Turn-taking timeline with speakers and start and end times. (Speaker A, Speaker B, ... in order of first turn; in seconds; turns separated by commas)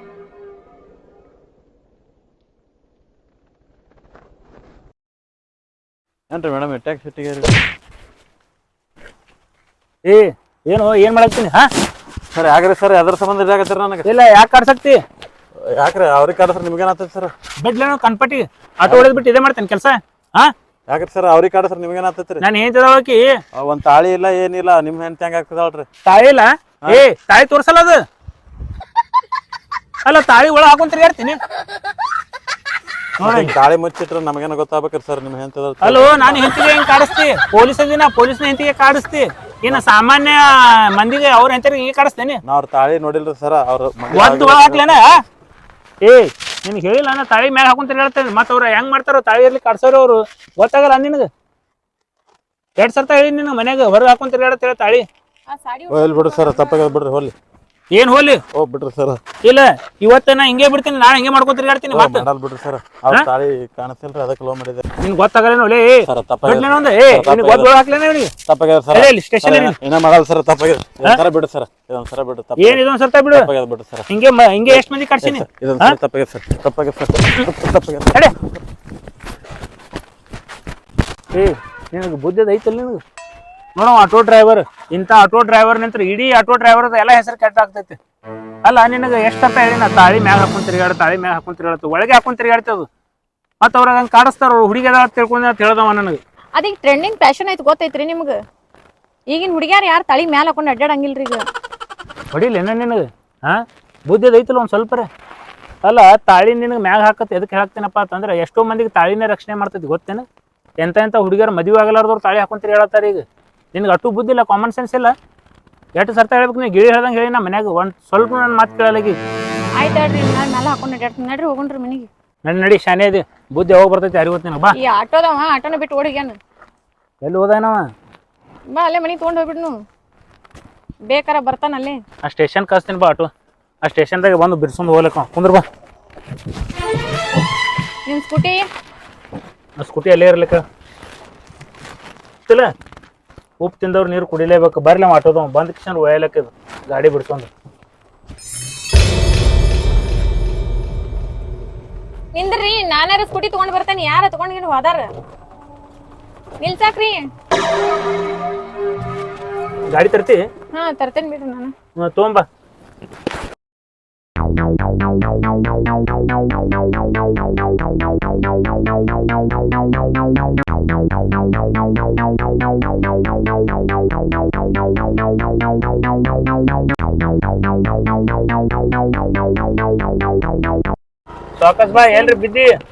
Speaker A: 6.3-7.6, Speaker B: 10.0-11.7, Speaker A: 12.3-14.1, Speaker B: 14.1-15.0, Speaker A: 15.6-17.3, Speaker B: 17.6-20.5, Speaker A: 18.9-19.2, Speaker A: 20.9-22.4, Speaker B: 22.4-23.4, Speaker A: 23.5-25.9, Speaker B: 26.0-28.0, Speaker B: 30.0-31.4, Speaker B: 33.2-33.5, Speaker A: 33.2-36.4, Speaker B: 35.8-42.4, Speaker A: 42.4-45.0, Speaker B: 44.1-45.2, Speaker B: 46.0-51.3, Speaker B: 52.8-55.1, Speaker C: 55.5-56.9, Speaker A: 55.9-57.3, Speaker B: 57.9-58.4, Speaker A: 58.5-59.2, Speaker B: 59.4-62.2, Speaker A: 61.9-64.8, Speaker B: 65.0-68.3, Speaker A: 66.0-67.7, Speaker A: 68.4-74.0, Speaker B: 68.9-69.8, Speaker B: 72.6-73.5, Speaker B: 74.1-76.0, Speaker A: 74.7-78.2, Speaker B: 81.3-83.0, Speaker B: 83.8-88.0, Speaker B: 88.6-92.9, Speaker B: 93.6-96.2, Speaker C: 96.6-98.4, Speaker C: 99.3-101.5, Speaker B: 102.3-105.1, Speaker B: 105.8-110.2, Speaker B: 110.8-115.1, Speaker B: 116.0-119.2, Speaker C: 119.8-122.1, Speaker B: 122.5-124.8, Speaker C: 124.7-126.4, Speaker B: 127.2-127.8, Speaker C: 128.7-129.7, Speaker C: 131.1-132.0, Speaker B: 132.2-133.3, Speaker B: 133.8-135.6, Speaker C: 138.1-138.7, Speaker B: 139.8-140.6, Speaker B: 143.6-147.5, Speaker C: 152.3-155.1, Speaker C: 156.6-157.3, Speaker B: 159.9-160.4, Speaker C: 160.7-161.7, Speaker B: 162.0-162.4, Speaker B: 181.6-182.8, Speaker C: 181.9-182.4